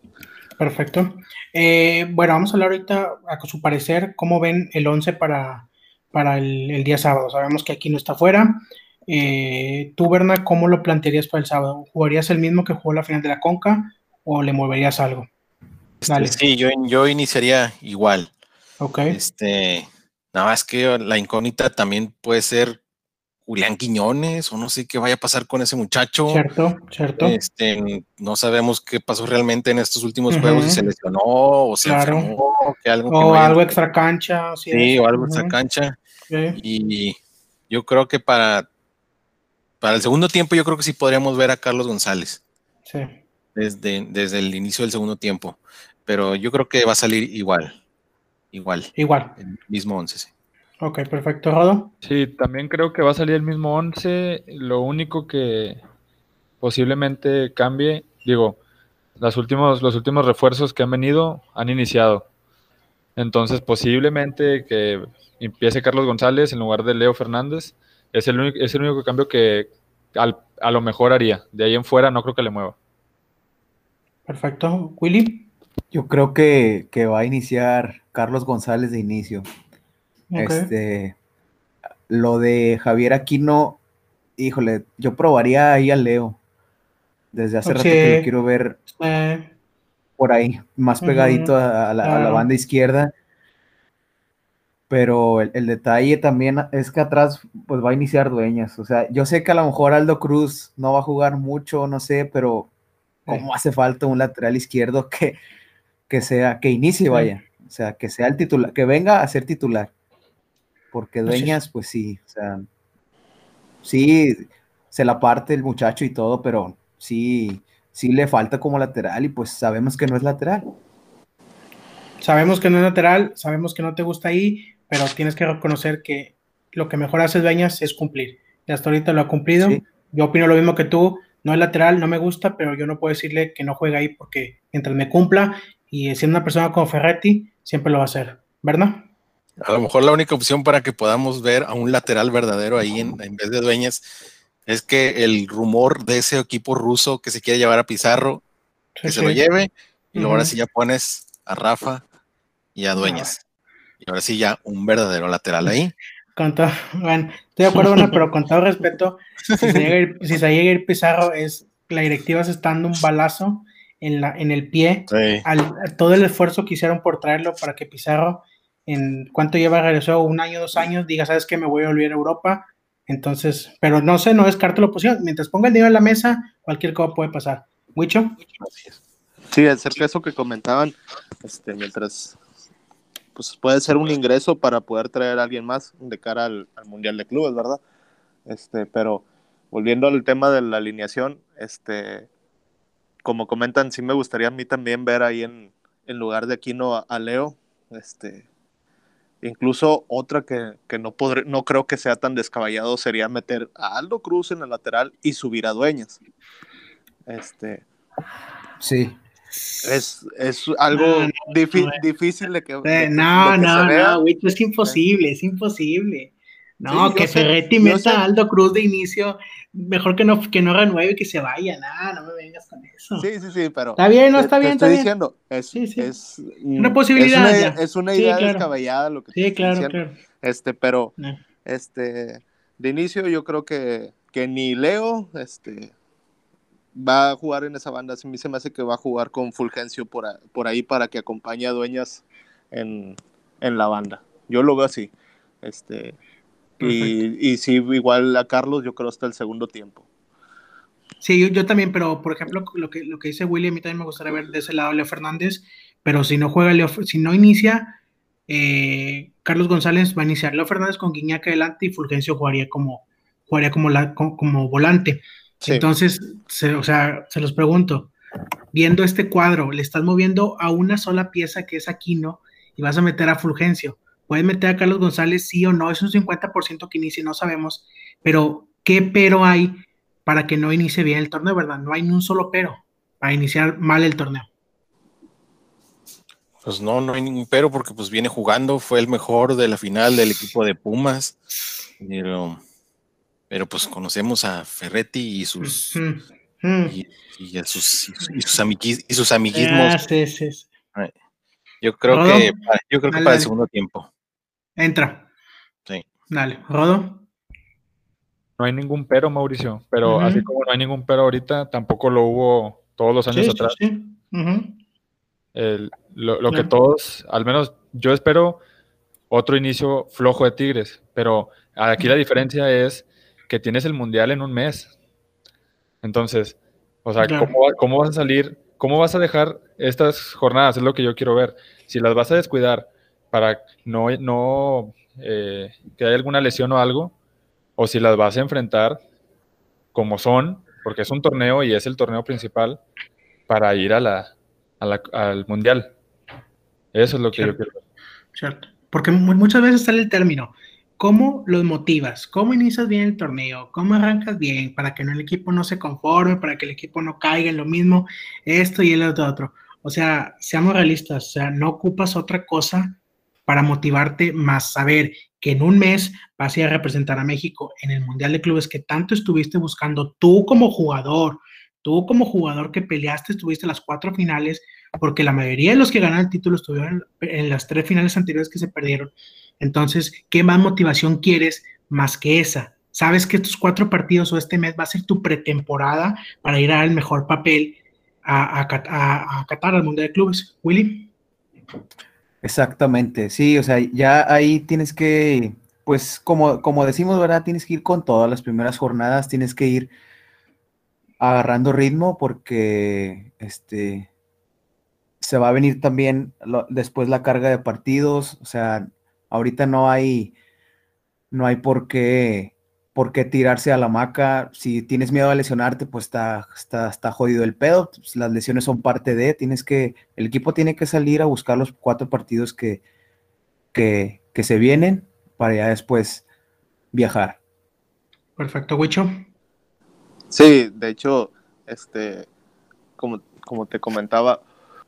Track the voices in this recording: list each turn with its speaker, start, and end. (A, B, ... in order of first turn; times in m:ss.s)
0:00.6-0:15.3 A
0:16.0-0:18.3 B
0:16.1-0:16.4 A
0:18.8-0:19.2 A
0:19.1-0:22.8 B
0:23.5-0:26.4 B
0:26.3-0:27.4 A
0:27.2-0:33.8 B
0:30.3-0:30.9 A
0:31.8-0:32.3 A
0:33.1-0:35.5 A
0:34.7-0:36.0 B
0:36.3-0:36.6 A
0:36.6-0:37.2 B
0:37.7-0:38.7 B
0:39.8-0:42.4 B
0:42.9-0:43.2 A
0:43.6-0:47.8 B
0:48.5-0:50.3 B
0:49.0-0:49.4 A
0:50.8-0:51.9 A
0:52.0-0:55.8 C
0:56.6-0:58.6 C
0:59.2-1:02.3 C
1:03.2-1:12.8 C
1:14.3-1:15.5 A
1:15.9-1:19.5 D
1:20.3-1:20.7 A
1:20.4-1:21.2 D
1:22.1-1:23.8 D
1:24.4-1:26.4 D
1:27.3-1:28.8 D
1:27.6-1:28.3 A
1:29.0-1:29.5 A
1:30.2-1:33.1 D
1:31.0-1:32.5 A
1:34.9-1:42.7 D
1:43.3-1:45.4 D
1:46.1-1:49.9 D
1:50.9-1:52.7 D
1:51.3-1:51.6 A
1:53.8-2:00.7 D
2:02.2-2:19.0 A
2:19.6-2:24.0 B
2:24.7-2:28.4 B
2:29.0-2:29.4 A
2:29.0-2:32.0 B
2:30.2-2:30.5 A
2:32.8-2:33.4 B
2:33.0-2:33.3 A
2:34.0-2:35.9 B
2:36.4-2:58.4 A
2:37.8-2:38.2 B
2:39.5-2:39.9 B
2:45.1-2:45.4 B
2:58.6-2:59.0 B
2:59.5-3:02.4 E
3:03.4-3:07.8 E
3:08.5-3:12.3 E
3:13.2-3:18.5 E
3:19.4-3:26.2 E
3:27.3-3:27.8 E
3:28.8-3:29.2 D
3:29.7-3:30.0 A
3:29.8-3:34.2 E
3:30.9-3:32.0 A
3:32.8-3:43.3 A
3:36.9-3:38.2 E
3:43.2-3:51.1 E
3:44.0-3:45.1 A
3:45.7-3:46.1 A
3:46.8-3:48.7 A
3:49.3-3:50.2 A
3:51.6-3:55.9 E
3:57.0-4:06.2 E
4:06.8-4:07.2 A
4:06.8-4:10.0 E
4:11.2-4:18.0 A
4:18.5-4:28.1 A
4:25.6-4:25.9 E
4:28.7-4:44.5 A
4:46.6-4:51.4 B
4:52.0-4:52.6 B
4:53.5-4:56.0 B
4:55.6-4:57.0 A
4:56.9-5:00.0 B
4:58.3-4:58.6 A
4:59.5-5:00.7 A
5:01.8-5:04.1 B
5:02.1-5:02.5 A
5:03.1-5:03.5 A
5:04.8-5:05.3 A
5:06.3-5:07.2 A
5:08.6-5:13.8 C
5:10.0-5:10.5 A
5:13.3-5:14.8 A
5:15.6-5:18.6 C
5:19.3-5:24.9 C
5:26.0-5:37.1 C
5:27.2-5:27.5 A
5:37.8-5:39.0 C
5:39.9-5:42.8 C
5:43.5-5:45.9 C
5:46.9-5:47.8 C
5:48.4-6:31.1 A
6:32.4-6:39.9 D
6:41.2-6:44.1 D
6:45.2-6:50.3 D
6:51.3-7:02.8 D
7:03.7-7:06.2 D
7:06.9-7:07.4 D
7:08.4-7:09.1 A
7:10.3-7:12.3 E
7:13.0-7:14.4 E